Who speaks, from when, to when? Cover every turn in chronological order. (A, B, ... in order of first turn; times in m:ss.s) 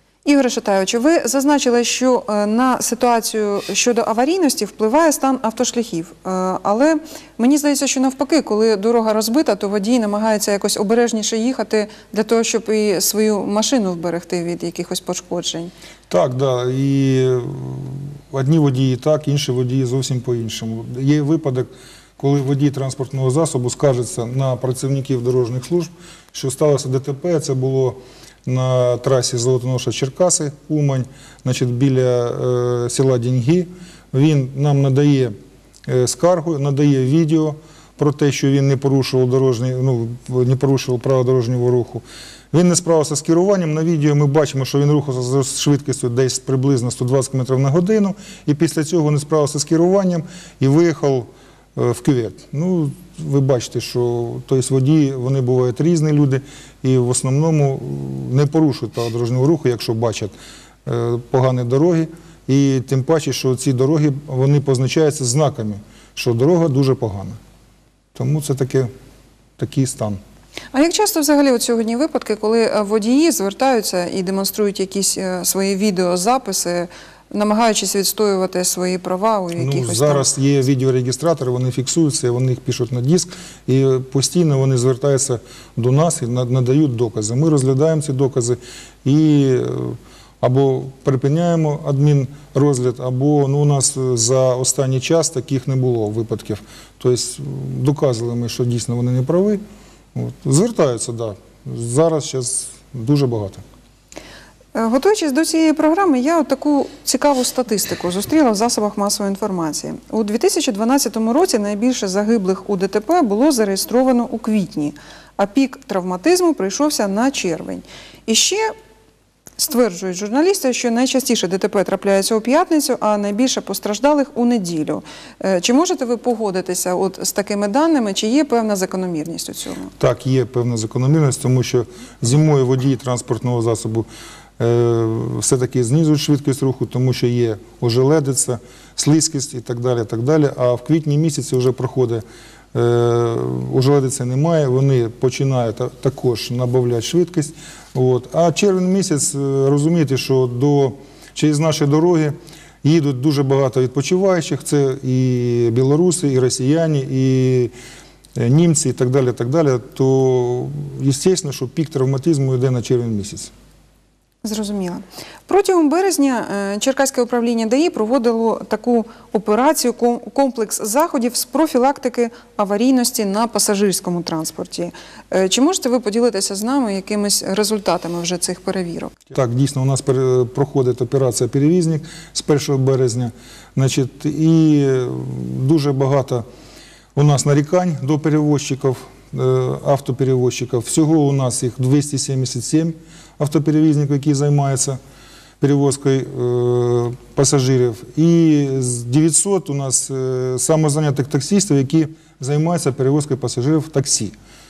0:00.2-0:15.7 A
0:16.1-0:35.3 B
0:35.9-1:00.3 B
1:00.8-1:07.4 B
1:08.1-1:08.9 B
1:09.6-1:10.2 B
1:10.7-1:20.2 A
1:19.6-1:39.6 B
1:40.1-1:43.6 B
1:44.7-1:58.7 A
1:59.6-2:09.9 A
2:10.0-2:14.1 B
2:14.6-2:37.7 B
2:38.4-2:43.5 B
2:44.4-2:59.1 A
2:59.3-3:06.4 B
3:07.2-3:15.0 B
3:15.6-3:24.3 B